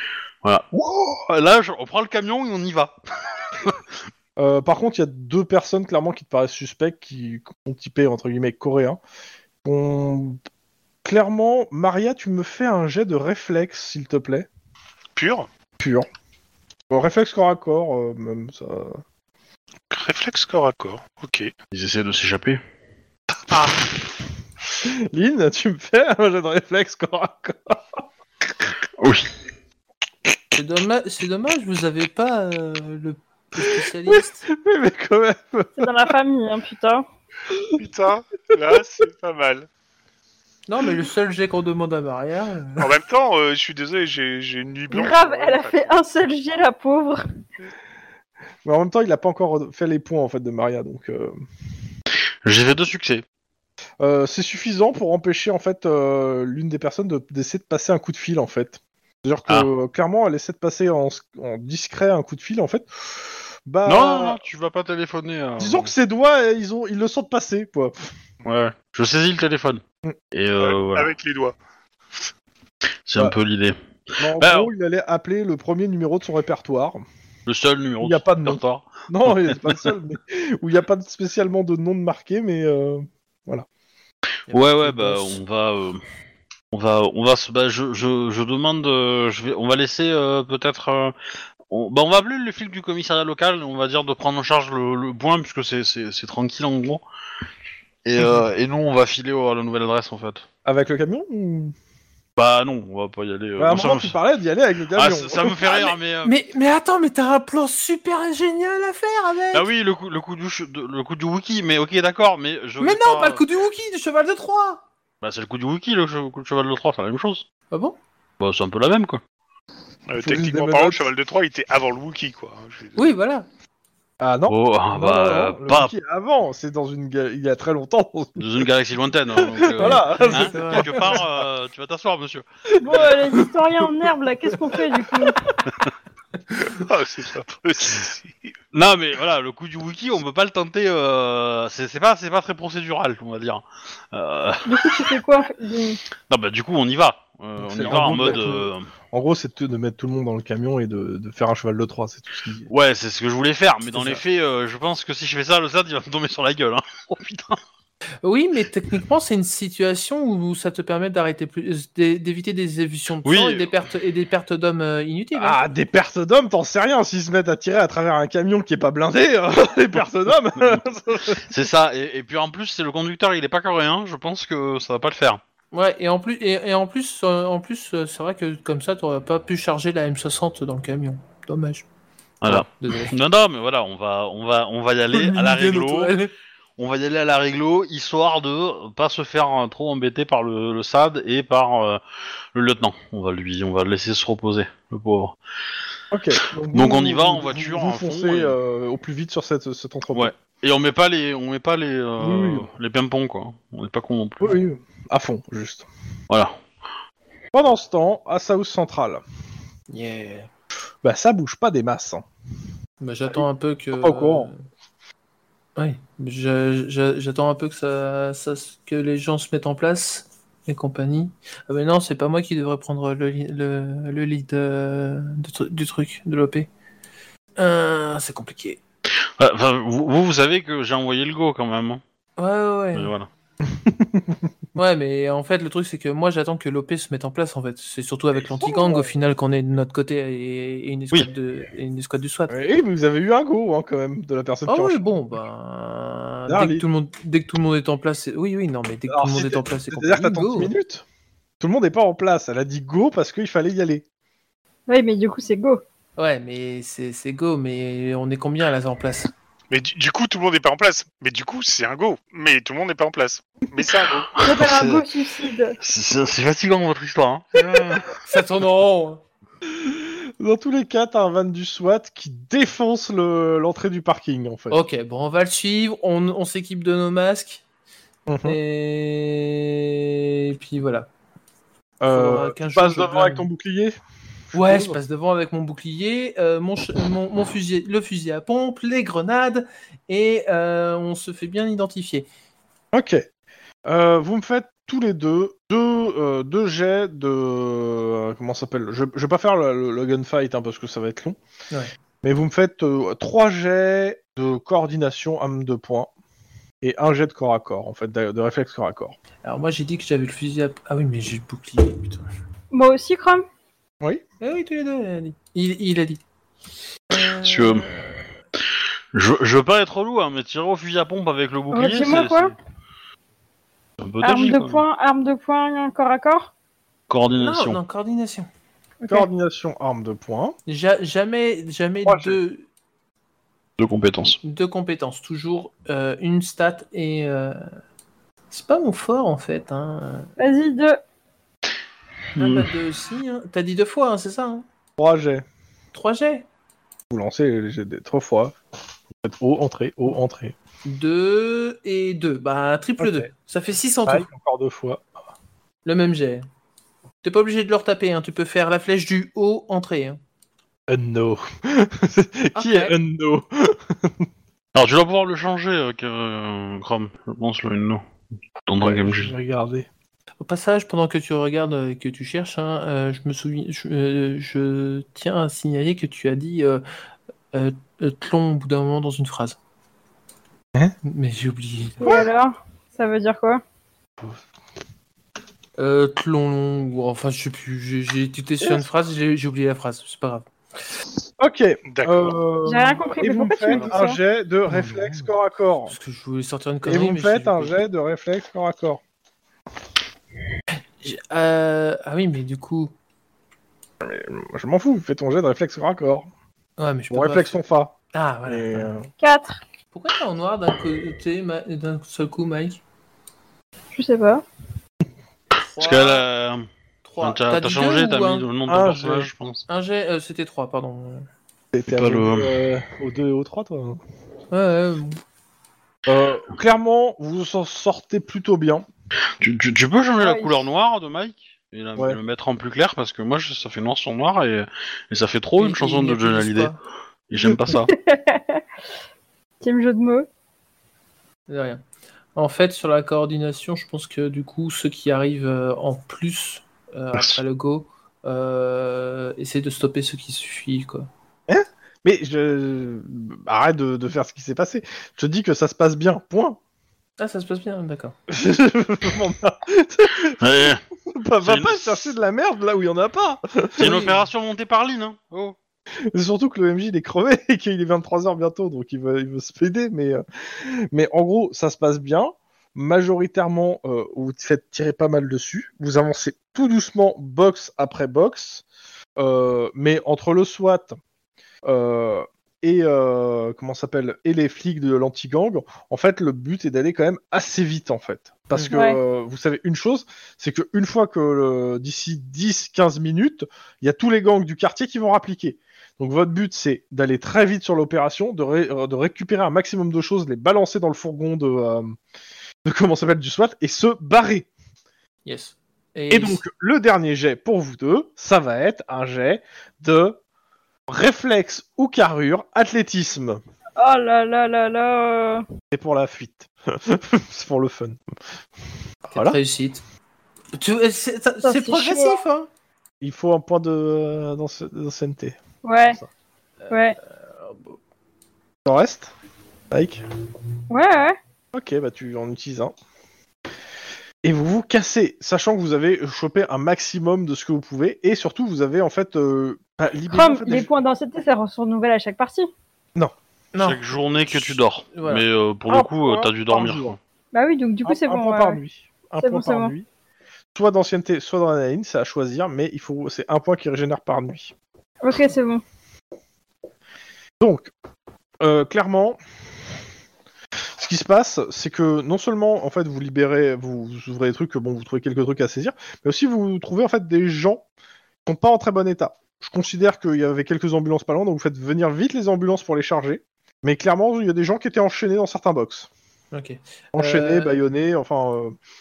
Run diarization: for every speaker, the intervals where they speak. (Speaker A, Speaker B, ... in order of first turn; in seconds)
Speaker A: 0.4-3.0, 3.5-3.8, 21.7-22.6, 29.0-29.3, 52.4-53.2, 63.8-65.9, 68.4-69.8, 70.3-71.1, 73.1-73.8, 74.4-74.7, 77.5-79.9, 84.5-86.0, 86.7-91.2, 91.7-97.0, 98.0-100.5, 102.3-104.2, 104.9-106.3, 109.5-113.4, 115.2-117.5, 118.4-119.2, 124.5-125.9, 128.4-133.1, 138.7-145.2, 146.3-148.8, 152.7-157.6, 163.2-163.7, 171.3-175.4, 182.4-186.1, 186.8-192.0, 192.5-195.4, 196.7-198.6, 200.1-204.6, 206.3-206.6, 229.4-232.0, 232.9-233.3, 264.3-265.0, 265.8-268.1, 317.4-318.0, 319.1-322.5, 324.0-324.8, 327.1-327.8, 333.8-334.4, 342.4-342.7, 364.7-368.0, 368.6-369.3, 415.8-416.7, 417.2-419.6, 421.9-422.6, 429.4-436.7, 437.3-437.9, 460.4-460.8, 461.4-462.0, 463.8-465.6, 543.6-547.0
Speaker B: 4.4-9.0, 9.6-10.4, 11.0-14.5, 15.8-16.1, 16.9-19.0, 24.8-27.8, 34.1-36.1, 48.6-51.3, 54.0-64.4, 65.6-68.1, 74.2-77.0, 78.0-83.7, 100.6-101.7, 103.6-105.9, 120.2-121.1, 124.2-128.7, 129.3-131.2, 132.8-133.4, 147.6-152.7, 165.3-171.4, 196.1-200.3, 202.2-202.7, 204.4-205.9, 207.5-209.2, 211.0-212.2, 213.9-214.5, 233.7-234.4, 238.6-239.1, 242.5-245.0, 246.5-246.8, 249.1-251.0, 251.6-254.0, 269.7-274.8, 278.3-278.6, 282.0-283.9, 284.5-285.0, 292.9-293.2, 293.9-301.4, 302.2-306.1, 306.8-309.2, 329.1-330.5, 332.0-332.4, 345.0-345.4, 347.1-348.6, 349.2-350.5, 353.0-353.3, 354.1-355.1, 360.9-364.3, 368.8-369.9, 382.0-382.3, 391.4-395.9, 396.8-399.0, 404.0-406.3, 407.1-407.9, 408.4-409.1, 418.7-419.3, 421.7-424.0, 426.1-428.9, 451.5-456.6, 458.3-464.0, 466.1-478.6, 479.2-481.0, 481.6-502.0, 502.6-504.5, 506.1-510.2, 510.9-513.4, 515.7-518.0, 519.1-519.4, 523.0-526.1, 528.6-529.1, 529.7-530.0, 531.5-532.7, 534.2-540.7, 545.7-547.0, 547.8-549.9, 550.5-554.5, 557.4-557.7, 558.4-559.2, 560.8-567.6, 568.2-575.9, 576.9-578.5
Speaker C: 15.2-15.5, 19.9-21.5, 37.7-39.7, 42.8-45.9, 70.6-71.5, 120.1-123.1, 136.6-138.5, 259.7-264.3, 391.9-392.4
Speaker D: 30.5-34.4, 40.7-42.9, 84.5-85.4, 105.7-109.7, 112.8-114.8, 117.7-118.0, 123.0-123.5, 129.8-131.2, 153.9-154.2, 158.2-165.6, 175.7-181.8, 182.4-183.1, 185.1-186.3, 209.9-210.5, 213.0-214.6, 215.8-226.7, 227.6-228.8, 232.4-233.1, 234.8-242.6, 244.7-250.7, 256.2-259.3, 268.2-269.2, 274.7-277.6, 278.4-281.1, 282.1-283.5, 284.5-292.3, 309.4-312.3, 314.4-316.2, 317.1-318.2, 327.3-328.5, 330.7-332.6, 334.4-337.6, 338.5-340.3, 342.3-344.6, 345.9-346.4, 350.8-354.3, 355.8-356.5, 357.2-360.2, 362.5-362.9, 370.4-376.8, 377.5-379.6, 381.0-382.0, 385.8-390.5, 394.6-395.3, 395.9-397.8, 401.0-402.9, 406.8-407.6, 408.1-408.9, 409.9-412.8, 415.6-416.2, 417.0-418.5, 419.7-421.3, 424.5-425.2, 435.6-436.8, 441.5-441.8, 442.3-451.1, 457.2-458.1, 463.8-464.2, 505.2-506.4, 519.1-519.8, 520.5-522.5, 527.4-527.7, 543.5-545.2, 576.3-577.6
Speaker E: 35.8-37.0, 44.9-47.2, 132.8-135.3, 144.7-146.0, 254.9-255.8, 264.4-265.8, 312.7-313.4, 321.7-322.5, 324.2-326.5, 329.0-329.3, 340.4-341.0, 382.0-383.6, 392.6-394.2, 409.2-409.6, 413.9-414.4, 430.2-430.6, 437.9-438.6, 439.6-440.3, 488.7-489.0, 513.8-515.5, 521.4-522.2, 525.6-526.0, 526.7-527.0, 530.7-531.1, 540.1-542.5, 547.3-548.6, 549.2-549.7, 555.0-555.6